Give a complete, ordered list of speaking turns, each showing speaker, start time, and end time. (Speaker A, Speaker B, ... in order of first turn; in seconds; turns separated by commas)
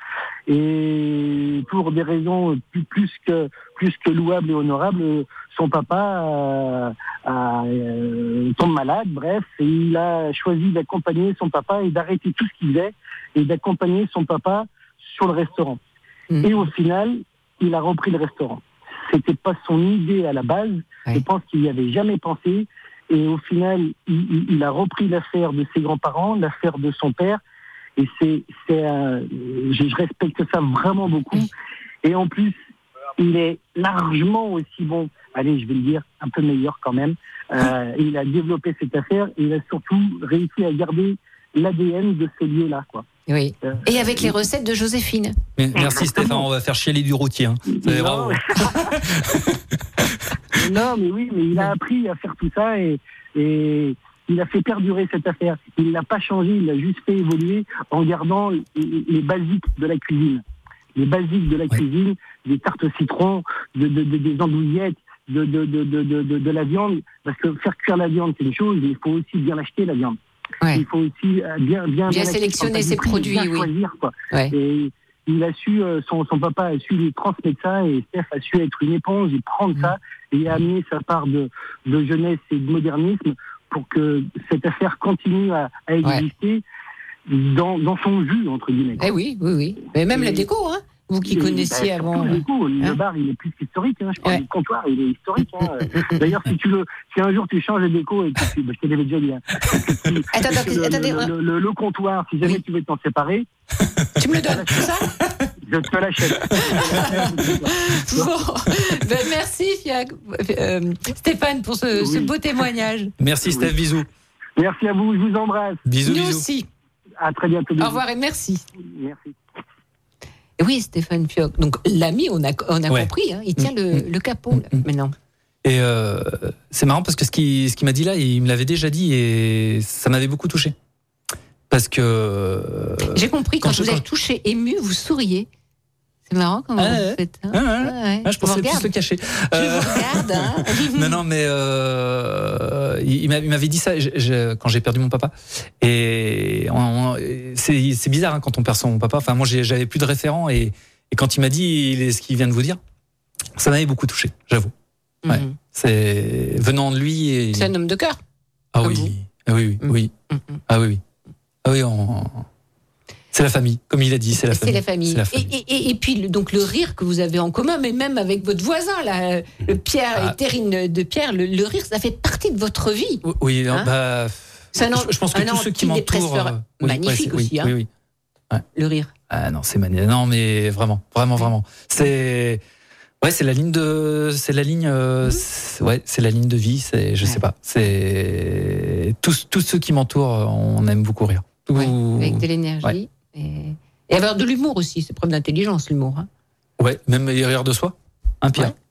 Speaker A: 0.5-15.8, Speaker A: 16.4-27.4, Speaker A: 28.0-31.5, Speaker A: 32.0-32.5, Speaker A: 33.2-43.0, Speaker B: 43.3-45.4, Speaker A: 43.6-44.3, Speaker C: 45.6-49.5, Speaker A: 45.7-46.4, Speaker A: 47.7-49.0, Speaker A: 50.5-60.4, Speaker A: 60.9-70.2, Speaker A: 70.7-86.6, Speaker B: 72.1-73.7, Speaker A: 87.3-89.1, Speaker B: 89.0-93.0, Speaker A: 90.1-90.5, Speaker A: 91.2-103.5, Speaker B: 95.9-96.2, Speaker B: 100.3-101.3, Speaker B: 104.2-105.1, Speaker A: 104.5-104.8, Speaker A: 105.6-108.3, Speaker B: 106.6-113.1, Speaker A: 112.0-112.3, Speaker C: 113.2-114.1, Speaker A: 113.4-113.7, Speaker A: 114.6-115.8, Speaker C: 115.8-116.4, Speaker B: 116.0-116.7, Speaker A: 117.2-118.0, Speaker B: 117.8-118.7, Speaker A: 118.8-119.3, Speaker B: 120.6-125.1, Speaker C: 122.9-124.0, Speaker C: 124.5-124.8, Speaker C: 125.6-130.7, Speaker C: 131.7-134.0, Speaker B: 133.0-135.5, Speaker B: 136.3-138.9, Speaker C: 136.8-152.8, Speaker B: 139.5-141.2, Speaker C: 153.6-154.7, Speaker B: 155.2-155.5, Speaker C: 155.3-157.7, Speaker B: 157.5-158.2, Speaker C: 158.7-160.1, Speaker B: 158.8-159.1, Speaker B: 159.8-160.6, Speaker C: 160.7-161.0, Speaker C: 161.6-162.4, Speaker C: 163.3-165.5, Speaker B: 164.5-173.9, Speaker C: 173.2-177.9, Speaker B: 174.7-177.7, Speaker B: 178.7-179.1, Speaker C: 179.3-182.6, Speaker C: 183.2-192.9, Speaker B: 191.7-196.3, Speaker C: 196.8-198.7